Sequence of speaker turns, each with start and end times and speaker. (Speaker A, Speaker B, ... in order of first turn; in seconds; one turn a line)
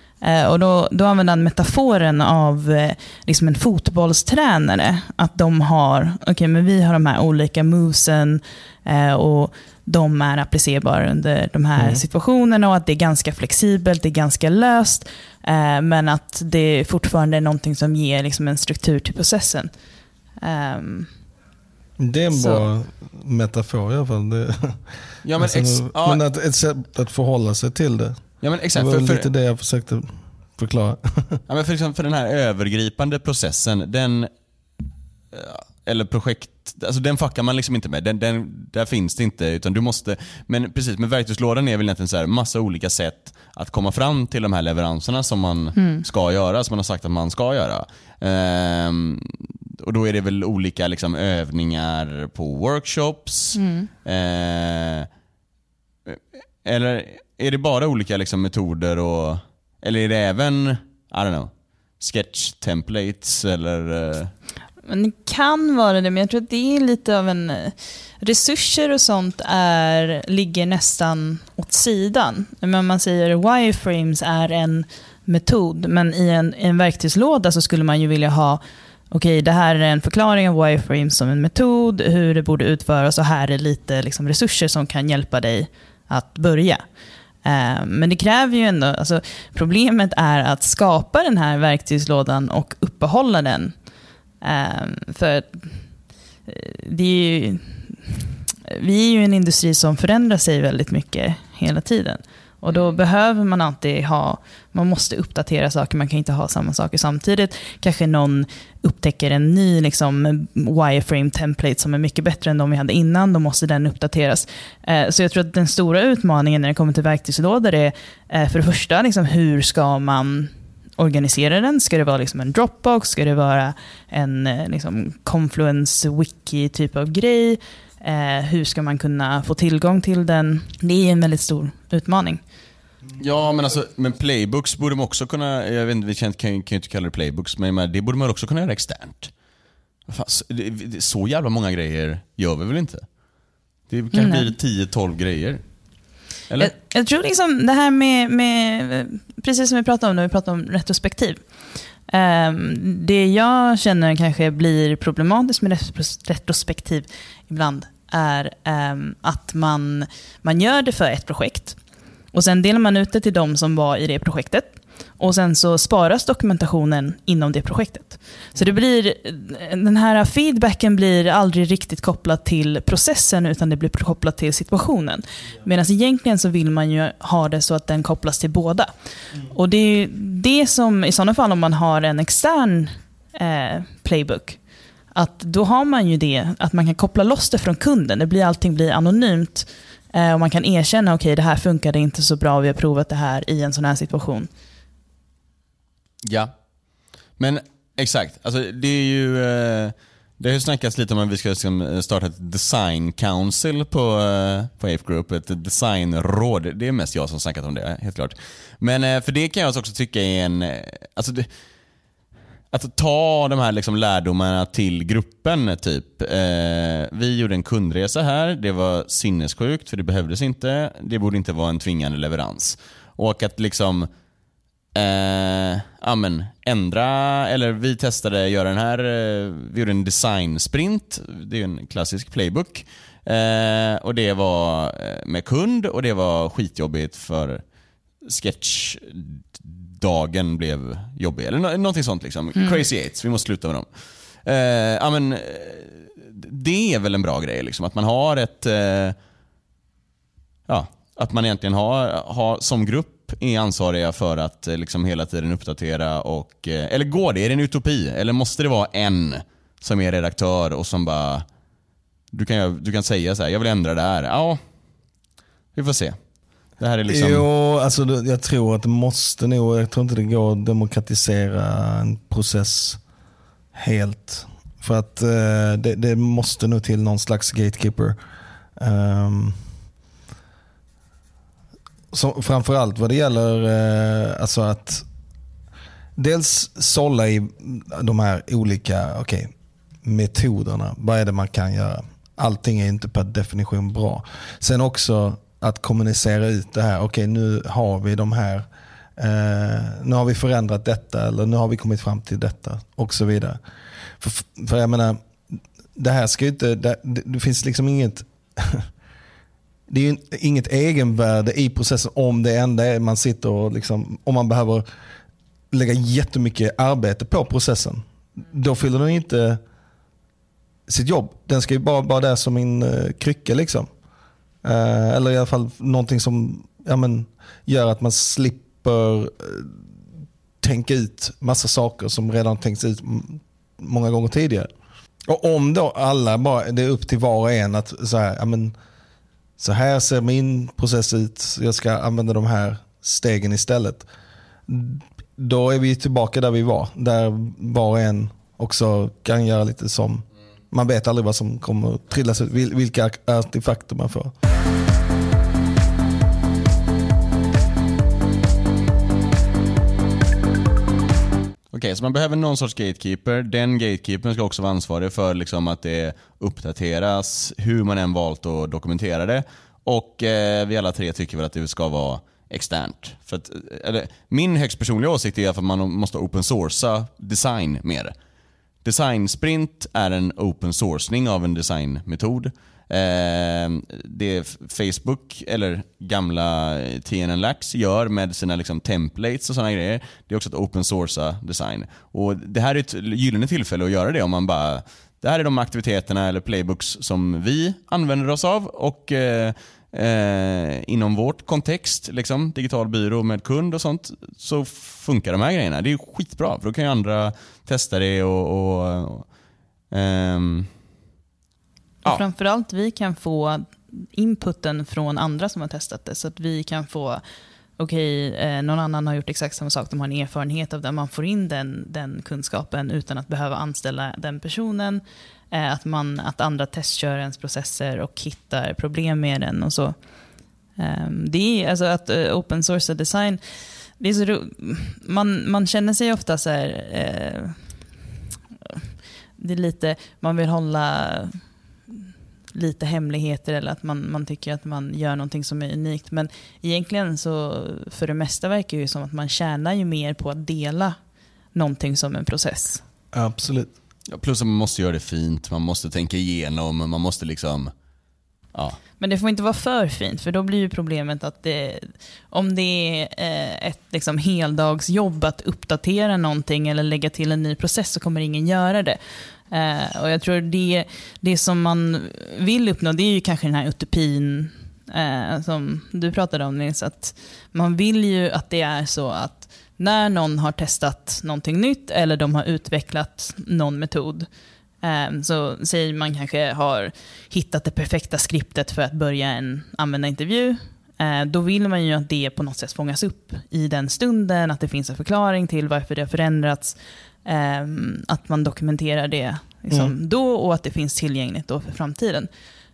Speaker A: 0.2-19.7
Speaker B: 11.8-12.0
Speaker A: 20.4-21.1
Speaker B: 22.0-31.4
Speaker A: 22.3-22.6
Speaker C: 25.2-26.2
Speaker C: 28.4-29.2
Speaker C: 31.5-34.3
Speaker C: 35.3-55.1
Speaker A: 45.8-46.0
Speaker A: 53.5-53.9
Speaker C: 56.0-64.3
Speaker A: 64.8-86.8
Speaker A: 87.4-93.7
Speaker A: 94.4-95.7
Speaker A: 96.5-132.4
Speaker C: 133.2-139.3
Speaker C: 140.1-143.1
Speaker C: 143.9-145.6
Speaker A: 144.1-144.5
Speaker A: 146.6-151.4
Speaker A: 152.1-161.8
Speaker A: 162.3-184.6
Speaker A: 185.1-194.5
Speaker C: 196.2-196.5
Speaker C: 197.4-211.5
Speaker C: 212.7-224.1
Speaker C: 224.9-237.6
Speaker C: 238.2-243.9
Speaker C: 244.4-249.2
Speaker C: 250.7-261.4
Speaker C: 262.3-264.6
Speaker C: 265.7-266.2
Speaker C: 266.8-267.4
Speaker B: 267.1-273.0
Speaker B: 273.7-278.2
Speaker B: 278.8-279.6
Speaker B: 282.1-285.0
Speaker B: 286.1-289.5
Speaker B: 290.0-303.6
Speaker B: 304.2-305.2
Speaker B: 305.9-308.9
Speaker B: 309.9-314.8
Speaker B: 315.7-319.6
Speaker B: 320.9-323.9
Speaker B: 324.6-329.8
Speaker B: 330.6-334.7
Speaker B: 335.3-338.7
Speaker B: 339.6-344.1
Speaker B: 344.7-354.3
Speaker C: 361.7-378.1
Speaker C: 378.8-409.3
Speaker C: 409.9-410.7
Speaker A: 412.0-417.2
Speaker A: 417.8-429.9
Speaker A: 430.8-433.4
Speaker A: 434.0-437.6
Speaker A: 439.4-450.9
Speaker A: 451.5-452.8
Speaker B: 453.1-453.7
Speaker C: 454.1-457.7
Speaker A: 459.0-469.0
Speaker A: 469.5-484.3
Speaker A: 484.8-502.3